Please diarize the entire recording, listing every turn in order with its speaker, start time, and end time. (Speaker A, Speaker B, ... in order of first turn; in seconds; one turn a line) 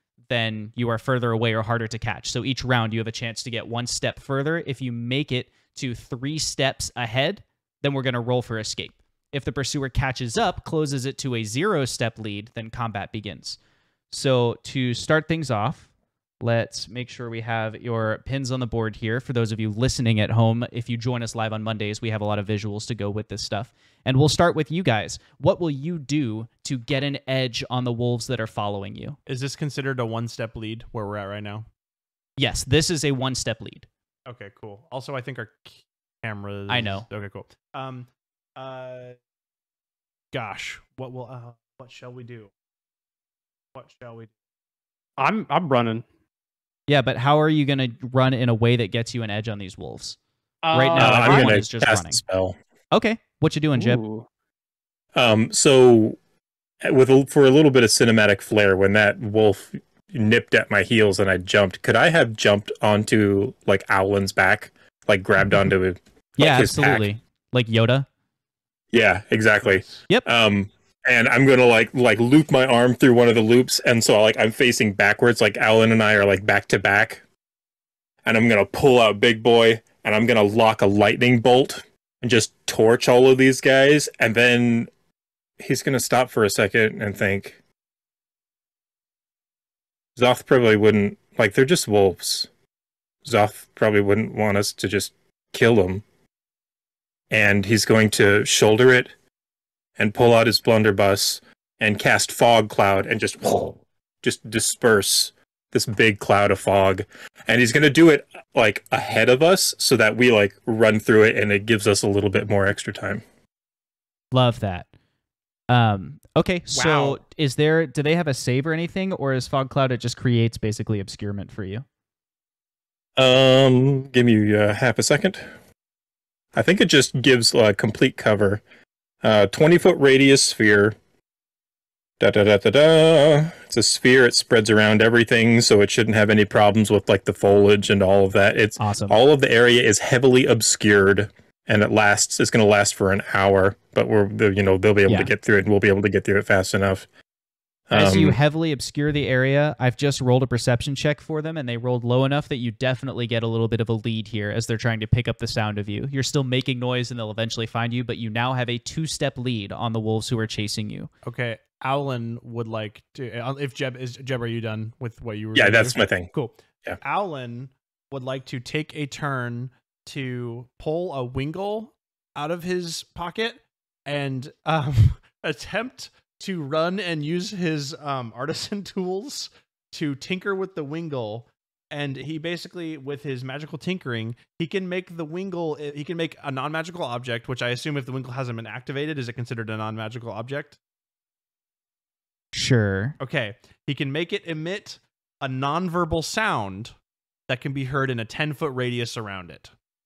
Speaker A: 0.3-13.6
Speaker A: 14.1-15.9
Speaker A: 16.4-29.2
Speaker B: 29.3-31.7
Speaker A: 32.4-33.9
Speaker B: 34.3-39.2
Speaker A: 36.7-37.1
Speaker B: 40.3-42.5
Speaker B: 43.7-44.3
Speaker C: 45.2-46.0
Speaker A: 46.9-50.2
Speaker C: 50.6-51.6
Speaker A: 50.7-52.2
Speaker D: 51.0-52.6
Speaker A: 52.9-54.0
Speaker C: 53.8-54.3
Speaker D: 55.1-56.2
Speaker D: 56.8-67.1
Speaker A: 66.4-68.1
Speaker D: 68.9-77.2
Speaker B: 69.6-70.0
Speaker D: 78.2-84.9
Speaker D: 85.6-87.6
Speaker D: 90.2-92.5
Speaker D: 93.2-96.0
Speaker D: 97.3-99.1
Speaker D: 100.0-113.2
Speaker A: 114.3-114.9
Speaker A: 115.7-121.8
Speaker C: 116.7-117.2
Speaker D: 123.2-125.5
Speaker D: 126.5-128.6
Speaker D: 129.2-131.0
Speaker D: 132.2-147.1
Speaker A: 138.8-139.2
Speaker D: 147.9-148.4
Speaker A: 147.9-161.1
Speaker B: 161.2-190.8
Speaker D: 165.5-166.3
Speaker A: 192.5-193.2
Speaker B: 193.2-196.9
Speaker B: 197.5-199.7